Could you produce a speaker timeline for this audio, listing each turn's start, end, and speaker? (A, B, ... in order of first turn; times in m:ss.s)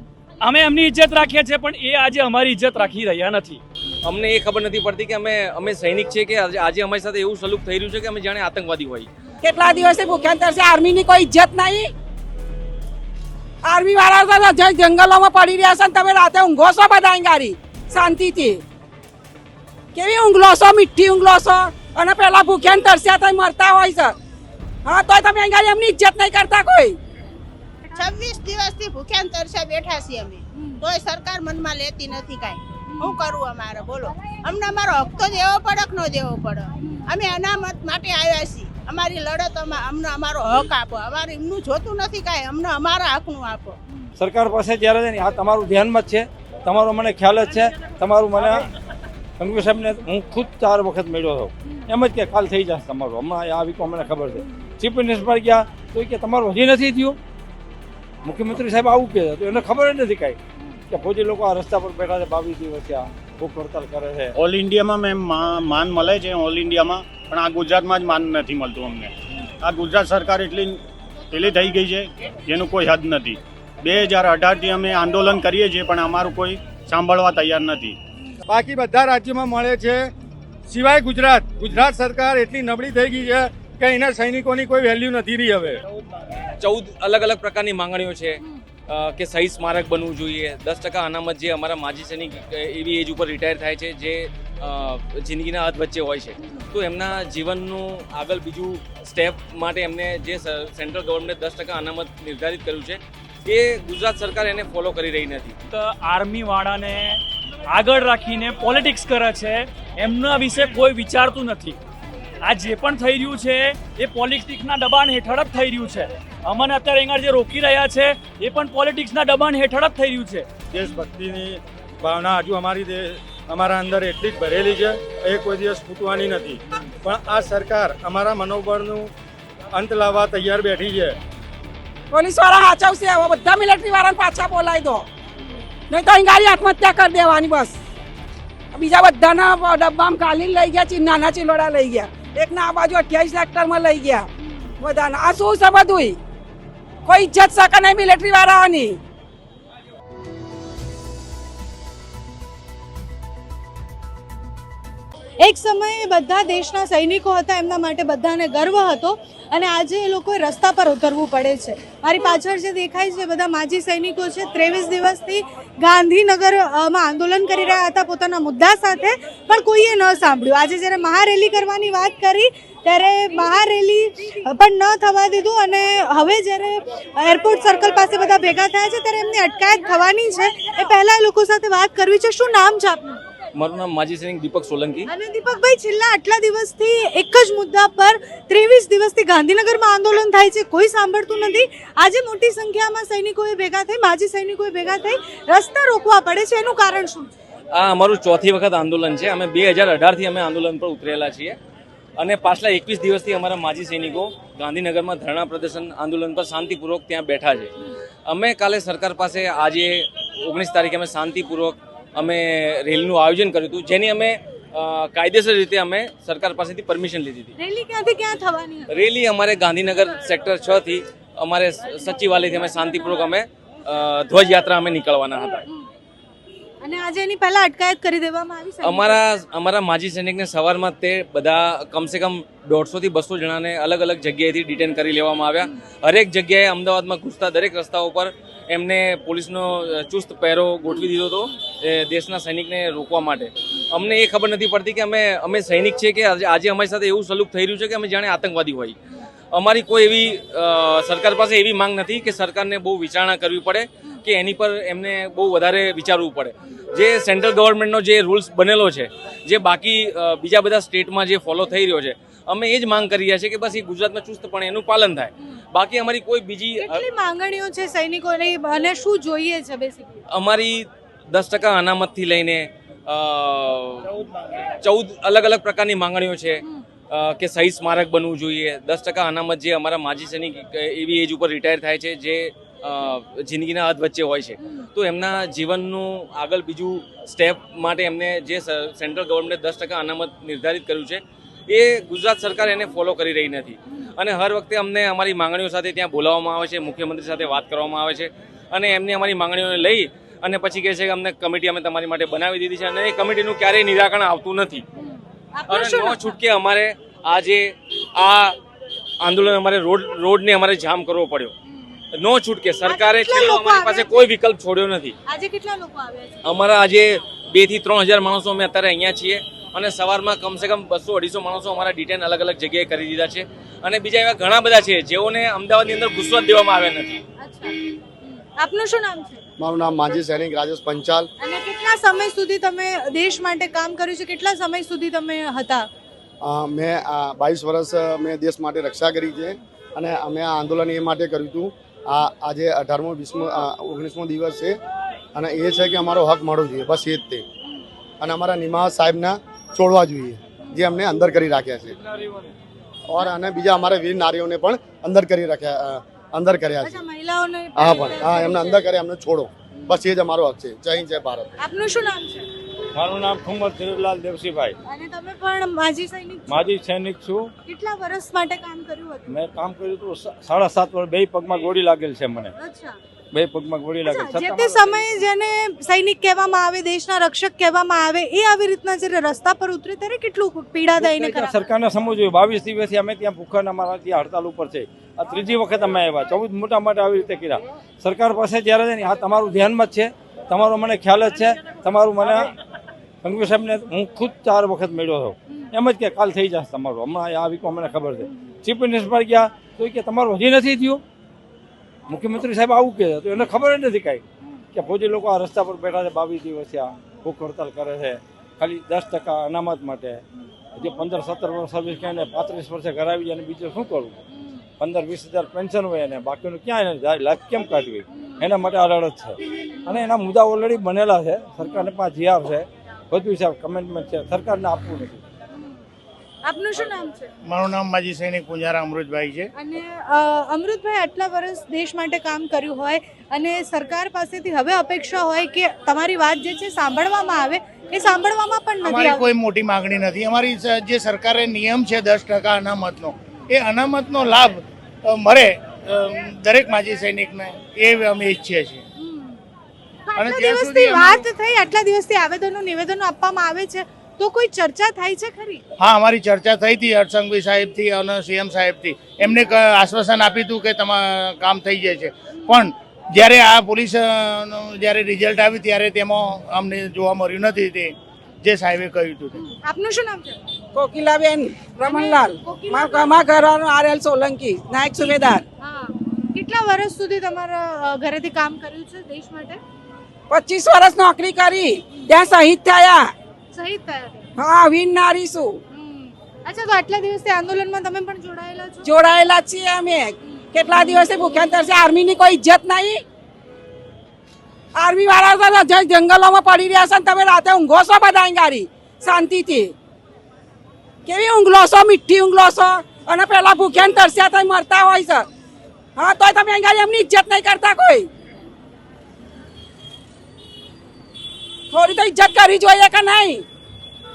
0:00.4-0:03.6 A
0:04.0-0:09.1 B
0:09.4-0:11.9 C
0:13.6-0:18.6 C
0:19.9-0:24.1 C
0:24.8-0:27.0 C
0:27.9-0:43.8 D
0:44.2-0:48.7 E
0:49.4-0:57.2 E
0:58.2-1:00.4 E
1:00.9-1:04.3 E
1:04.3-1:10.8 F
1:11.3-1:18.0 F
1:18.5-1:20.1 G
1:20.7-1:25.8 G
1:26.6-1:45.5 B
1:45.7-1:51.8 A
1:52.4-2:00.4 A
2:00.7-2:09.1 G
2:09.7-2:11.2 G
2:12.1-2:15.1 C
2:15.9-2:17.8 C
2:18.7-2:24.3 C
2:24.8-2:26.2 C
2:27.0-2:29.0 C
2:35.4-3:03.2 H
3:03.6-3:05.1 B
3:05.1-3:17.3 H
3:17.7-3:21.6 B
3:22.2-3:27.7 B
3:28.3-3:37.5 B
3:37.6-3:38.9 H
3:38.9-3:45.6 B
3:46.8-3:49.2 H
3:48.8-4:09.0 B
4:09.5-4:27.0 B
4:26.8-4:30.2 H
4:30.3-4:34.1 B
4:34.8-5:04.8 B
5:05.0-5:06.3 H
5:05.7-5:08.6 B
5:09.2-5:11.5 B
5:12.1-5:15.1 B
5:12.8-5:14.2 H
5:15.3-5:16.6 H
5:16.4-5:27.2 B
5:27.4-5:29.4 H
5:29.6-5:31.3 I
5:31.4-5:35.9 H
5:36.4-5:44.8 I
5:45.3-5:47.4 I
5:48.2-5:52.0 I
5:52.1-5:52.5 E
5:53.1-5:57.0 I
5:56.8-5:58.8 H
5:57.8-6:01.5 I
5:59.7-6:00.0 H
6:01.6-6:02.5 H
6:02.9-6:04.8 E
6:04.8-6:06.6 H
6:06.5-6:07.5 E
6:07.6-6:09.3 H
6:09.3-6:12.5 E
6:12.6-6:13.0 H
6:13.3-6:15.0 E
6:14.0-6:21.6 H
6:21.0-6:32.5 E
6:33.2-6:41.0 E
6:42.1-6:50.2 E
6:50.8-6:54.2 E
6:54.8-7:05.2 E
6:58.1-6:58.4 H
7:05.5-7:05.8 H
7:06.4-7:07.3 H
7:07.4-7:09.5 J
7:09.6-7:19.2 H
7:18.8-7:28.8 J
7:29.0-7:29.4 H
7:30.1-7:35.6 H
7:30.1-7:31.2 J
7:35.8-7:49.4 J
7:49.4-7:50.5 H
7:50.7-7:55.4 C
7:51.9-7:53.2 H
7:55.6-7:59.6 H
8:00.3-8:03.0 C
8:03.5-8:04.2 H
8:04.4-8:05.6 C
8:05.7-8:08.9 H
8:08.8-8:13.0 C
8:14.8-8:19.7 C
8:21.0-8:25.3 C
8:26.0-8:28.1 C
8:31.7-8:33.4 C